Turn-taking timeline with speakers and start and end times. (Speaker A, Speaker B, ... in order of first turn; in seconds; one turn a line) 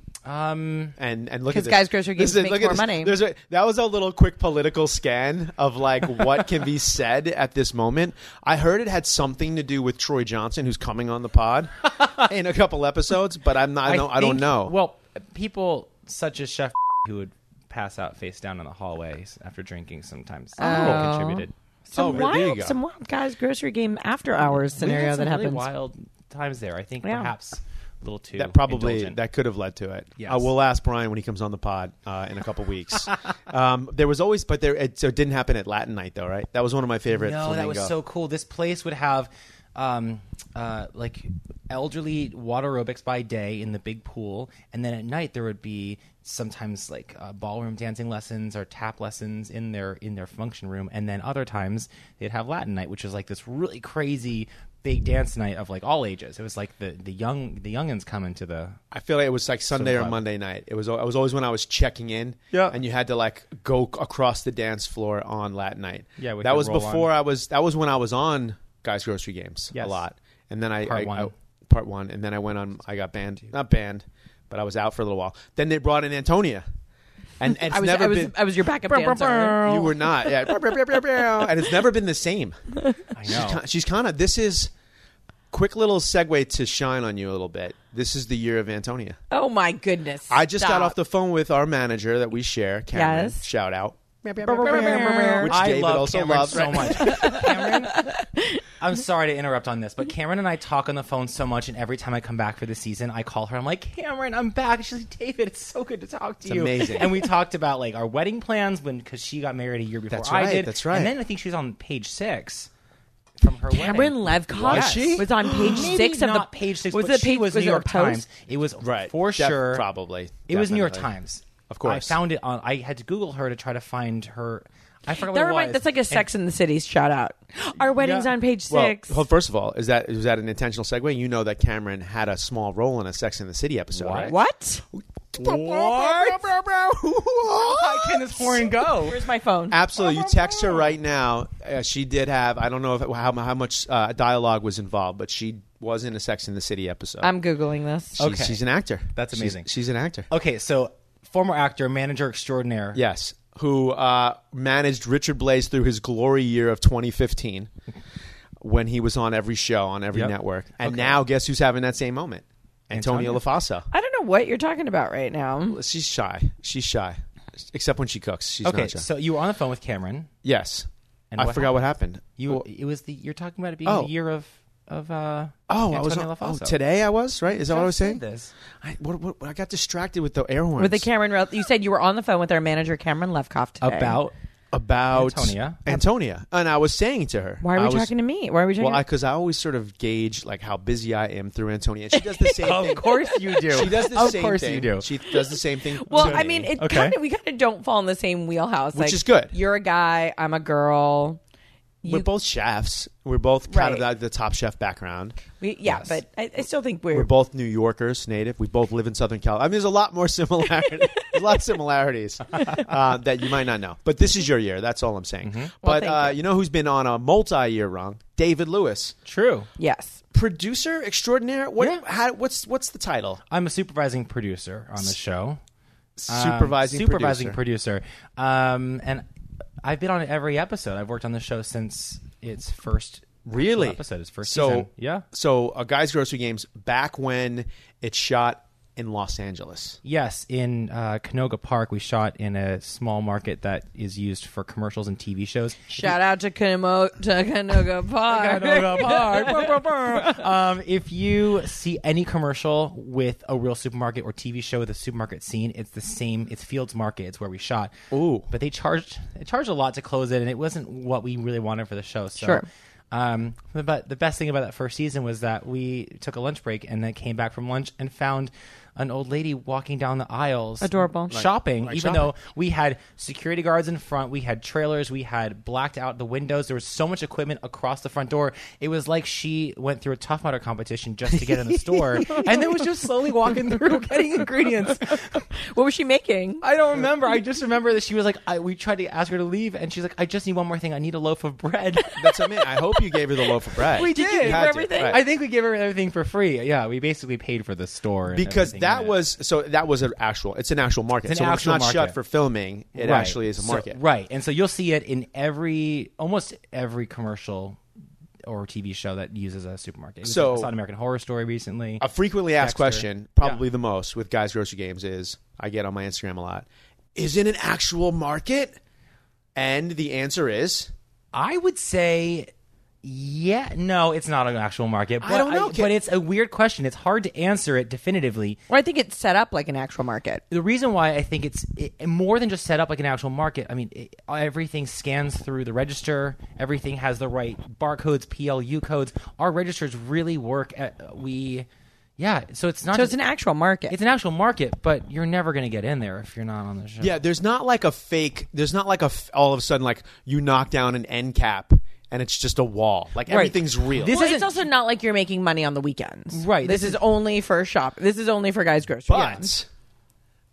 Speaker A: 0.2-1.0
Speaker B: 1.0-14.7
Speaker C: 1.5-3.1
Speaker A: 13.8-22.3
Speaker C: 20.6-25.7
Speaker B: 20.7-21.0
Speaker B: 22.0-22.8
Speaker A: 24.7-29.2
Speaker C: 27.0-27.3
Speaker B: 28.4-37.9
Speaker A: 30.2-30.5
Speaker A: 37.1-58.8
Speaker B: 58.9-76.7
Speaker A: 59.7-60.2
Speaker A: 62.5-62.8
Speaker A: 66.2-67.1
Speaker A: 69.7-70.0
Speaker A: 70.8-71.3
Speaker B: 77.4-78.4
Speaker C: 77.6-80.5
Speaker A: 78.9-79.6
Speaker B: 79.0-82.6
Speaker A: 83.2-83.6
Speaker B: 83.3-84.7
Speaker B: 85.5-89.2
Speaker C: 89.3-91.0
Speaker B: 90.3-97.4
Speaker C: 92.9-93.4
Speaker A: 94.4-98.1
Speaker C: 94.6-95.5
Speaker C: 96.8-98.6
Speaker A: 98.8-112.7
Speaker B: 106.4-107.1
Speaker B: 110.1-111.1
Speaker A: 113.4-119.9
Speaker C: 113.7-118.2
Speaker B: 114.6-115.8
Speaker B: 118.8-121.1
Speaker A: 120.5-126.3
Speaker B: 121.7-122.2
Speaker C: 125.3-129.2
Speaker A: 128.0-128.3
Speaker B: 128.7-134.4
Speaker A: 133.9-134.4
Speaker C: 134.3-134.8
Speaker B: 134.9-138.6
Speaker A: 135.4-136.5
Speaker A: 137.6-139.2
Speaker C: 138.4-139.8
Speaker B: 139.7-147.3
Speaker C: 147.2-148.2
Speaker B: 148.2-150.3
Speaker A: 148.2-148.6
Speaker A: 149.1-149.7
Speaker A: 150.3-153.0
Speaker B: 152.9-157.7
Speaker B: 158.6-163.9
Speaker A: 160.1-161.2
Speaker A: 162.9-163.4
Speaker C: 163.9-165.8
Speaker B: 165.7-169.1
Speaker A: 168.7-170.3
Speaker B: 170.4-172.7
Speaker A: 171.3-176.8
Speaker B: 173.8-174.1
Speaker B: 175.7-178.2
Speaker A: 177.5-178.5
Speaker B: 178.8-181.1
Speaker C: 180.8-184.2
Speaker A: 183.8-184.3
Speaker B: 184.7-188.1
Speaker A: 185.1-186.0
Speaker C: 187.6-189.0
Speaker B: 188.8-193.1
Speaker C: 192.2-192.5
Speaker A: 192.6-195.1
Speaker B: 193.7-196.7
Speaker C: 196.0-201.4
Speaker A: 196.1-197.2
Speaker B: 198.9-199.5
Speaker C: 202.0-202.3
Speaker B: 202.1-205.4
Speaker C: 203.7-204.0
Speaker C: 205.6-207.3
Speaker A: 205.9-206.2
Speaker B: 207.1-219.2
Speaker A: 215.4-215.8
Speaker C: 215.8-216.4
Speaker A: 219.3-219.7
Speaker C: 219.8-220.2
Speaker B: 220.3-223.4
Speaker A: 223.5-225.6
Speaker B: 226.2-227.6
Speaker A: 226.3-229.2
Speaker A: 229.8-235.2
Speaker B: 233.5-240.0
Speaker A: 240.0-246.2
Speaker C: 245.9-250.3
Speaker A: 248.3-257.9
Speaker B: 258.1-258.5
Speaker A: 258.5-285.4
Speaker C: 262.4-262.7
Speaker C: 270.8-271.4
Speaker B: 271.3-272.3
Speaker B: 281.4-282.4
Speaker C: 285.4-286.6
Speaker A: 286.6-292.4
Speaker B: 292.2-295.2
Speaker A: 293.9-299.2
Speaker C: 293.9-295.2
Speaker B: 298.3-304.0
Speaker A: 301.3-302.2
Speaker A: 303.0-307.8
Speaker A: 308.5-312.1
Speaker B: 310.2-310.7
Speaker B: 312.0-318.8
Speaker A: 312.6-313.6
Speaker B: 319.6-320.9
Speaker A: 321.3-322.5
Speaker A: 323.0-328.6
Speaker B: 325.2-326.0
Speaker C: 328.7-330.4
Speaker A: 330.5-341.7
Speaker A: 342.2-343.2
Speaker C: 342.9-344.0
Speaker A: 343.9-347.1
Speaker B: 347.0-354.2
Speaker A: 353.3-354.6
Speaker C: 354.0-359.5
Speaker A: 356.3-357.0
Speaker B: 359.1-359.7